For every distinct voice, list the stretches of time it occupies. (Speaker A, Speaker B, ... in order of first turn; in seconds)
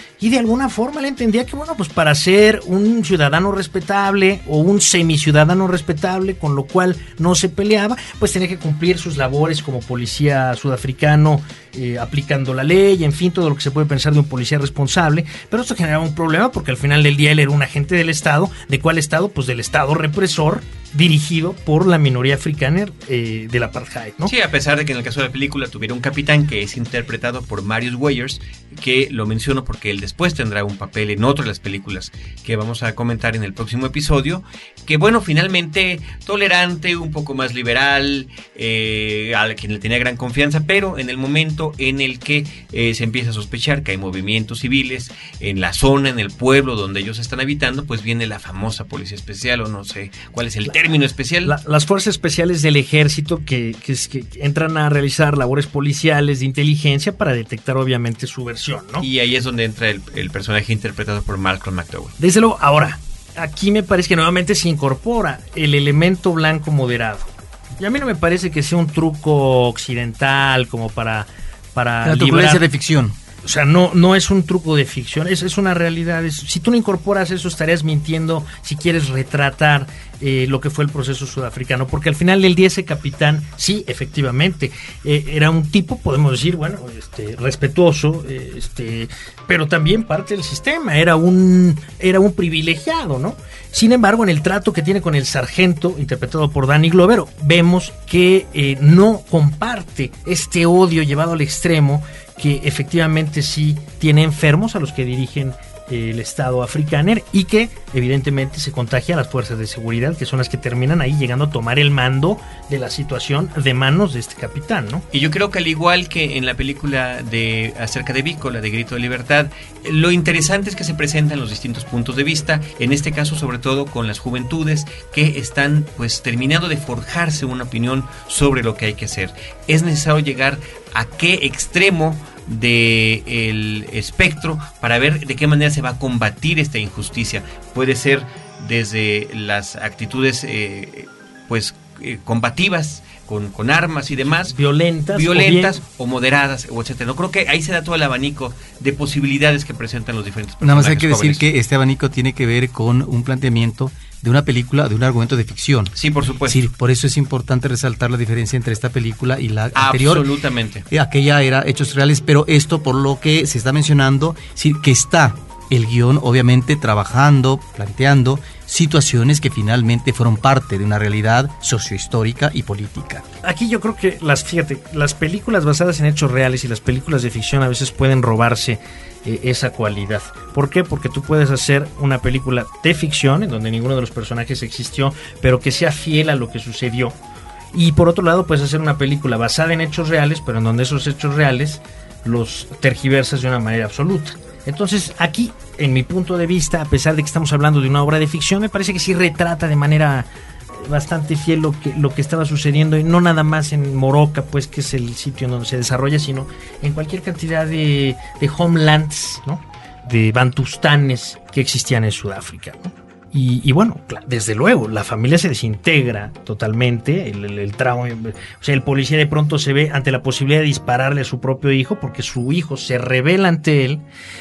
Speaker A: 0.2-24.3, 51.4-59.0, 62.2-72.6, 73.4-115.0, 144.2-145.8, 173.4-187.2, 187.7-224.0
Speaker B: 24.2-51.5, 59.0-62.1, 115.1-144.6, 145.1-151.4, 155.9-156.6, 159.8-160.8
Speaker C: 72.0-73.2, 150.6-155.9, 156.4-160.3, 160.9-173.2